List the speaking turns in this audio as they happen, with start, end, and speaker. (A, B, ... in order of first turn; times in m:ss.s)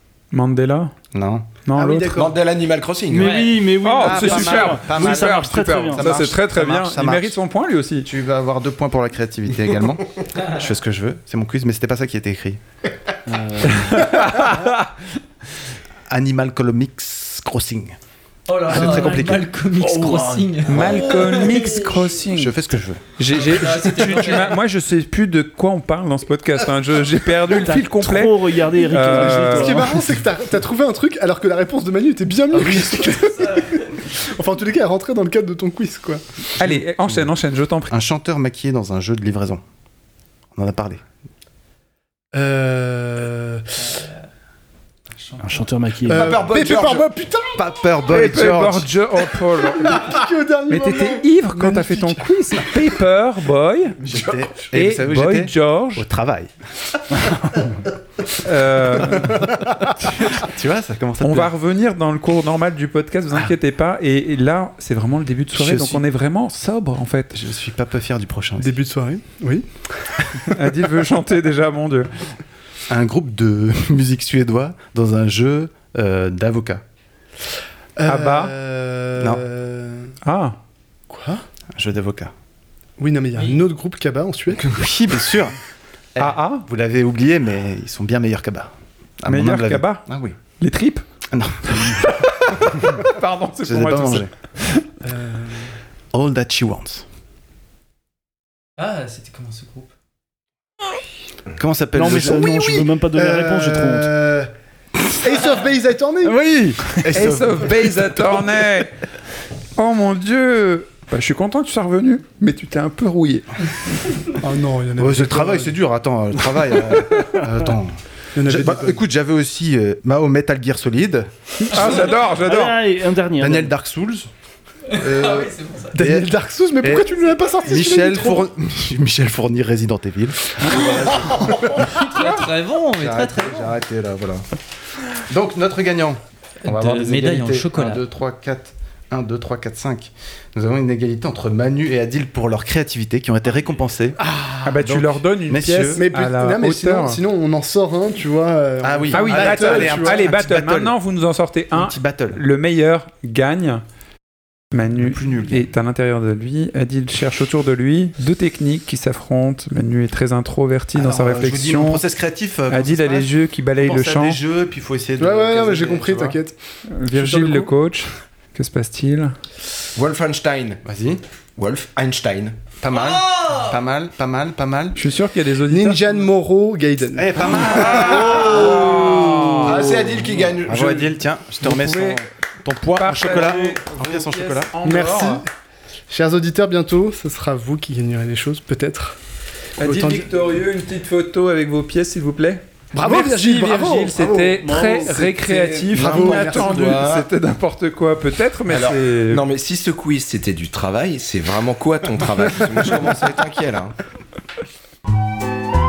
0:00.3-0:00.9 A
0:01.1-0:02.3 B
0:01.6-0:02.2 A
0:02.1-0:03.4 C
0:03.1-0:06.2 D
0:03.2-0:03.6 E
0:03.8-0:08.1 A
0:03.9-0:07.4 B
0:08.0-0:12.6 B
0:13.3-0:14.2 D
0:13.9-0:14.9 A
0:16.1-0:18.0 B
0:18.5-0:21.7 E
0:18.6-0:19.5 B
0:18.7-0:20.8 D
0:20.7-0:22.6 A
0:20.7-0:21.2 B
0:22.3-0:23.0 B
0:23.2-0:29.8 A
0:23.3-0:24.6 E
0:27.5-0:30.2 D
0:29.4-0:36.2 F
0:33.0-0:33.6 E
0:36.6-0:37.9 A
0:36.6-0:37.3 B
0:37.9-0:39.6 B
0:40.5-0:41.0 B
0:42.3-0:43.8 F
0:45.2-0:45.6 E
0:45.4-0:46.5 D
0:46.1-0:47.1 C
0:46.1-0:47.6 F
0:47.5-0:48.9 B
0:48.1-0:50.2 A
0:49.8-0:52.7 F
0:50.7-0:54.0 A
0:54.0-0:56.5 B
0:54.1-0:54.4 C
0:54.7-0:56.0 A
0:58.4-0:59.4 A
0:59.0-0:59.4 B
1:00.0-1:01.5 B
1:01.2-1:07.4 A
1:05.5-1:06.0 B
1:07.3-1:08.8 B
1:08.6-1:10.1 F
1:10.4-1:12.1 A
1:12.9-1:16.8 B
1:18.0-1:20.1 F
1:18.1-1:18.5 A
1:19.2-1:19.4 B
1:20.2-1:20.6 A
1:21.1-1:21.4 F
1:21.8-1:22.3 B
1:23.0-1:24.7 F
1:24.5-1:25.6 B
1:26.2-1:30.3 B
1:26.2-1:26.6 A
1:29.3-1:30.0 A
1:30.6-1:31.0 A
1:31.3-1:32.0 B
1:32.0-1:34.8 A
1:33.6-1:34.3 B
1:35.0-1:35.8 F
1:36.1-1:37.0 B
1:38.8-1:39.9 E
1:41.5-1:42.9 B
1:41.9-1:44.1 D
1:43.1-1:44.5 F
1:45.0-1:46.3 F
1:46.2-1:48.6 B
1:47.1-1:48.9 A
1:49.8-1:53.5 A
1:54.4-1:55.8 F
1:55.0-2:01.3 B
1:58.3-1:59.0 F
2:01.6-2:02.8 A
2:02.1-2:03.7 D
2:03.4-2:04.3 B
2:04.9-2:05.9 E
2:04.9-2:12.2 B
2:05.9-2:08.5 F
2:07.6-2:08.1 E
2:11.8-2:13.7 E
2:13.0-2:14.4 B
2:15.3-2:24.2 B
2:16.6-2:18.0 E
2:24.2-2:24.8 F
2:24.6-2:27.2 A
2:24.8-2:26.0 B
2:25.6-2:30.2 F
2:28.8-2:31.0 B
2:29.1-2:33.8 A
2:31.7-2:32.4 B
2:34.7-2:42.0 A
2:35.0-2:35.7 B
2:40.9-2:46.4 B
2:42.7-2:44.4 A
2:45.2-2:46.5 F
2:46.9-2:49.3 A
2:47.1-2:47.7 F
2:49.9-2:50.8 C
2:50.8-2:51.2 B
2:51.6-2:52.7 C
2:52.8-2:55.0 B
2:55.0-2:56.2 A
2:55.7-2:58.5 F
2:57.1-2:59.5 B
2:58.0-3:01.1 C
2:58.1-2:59.9 A
3:00.6-3:04.7 B
3:01.6-3:02.2 A
3:03.0-3:05.4 A
3:04.8-3:05.5 F
3:06.1-3:09.2 F
3:09.8-3:19.4 A
3:09.8-3:10.3 F
3:12.9-3:17.1 F
3:14.7-3:15.2 D
3:15.5-3:17.3 C
3:18.7-3:23.9 C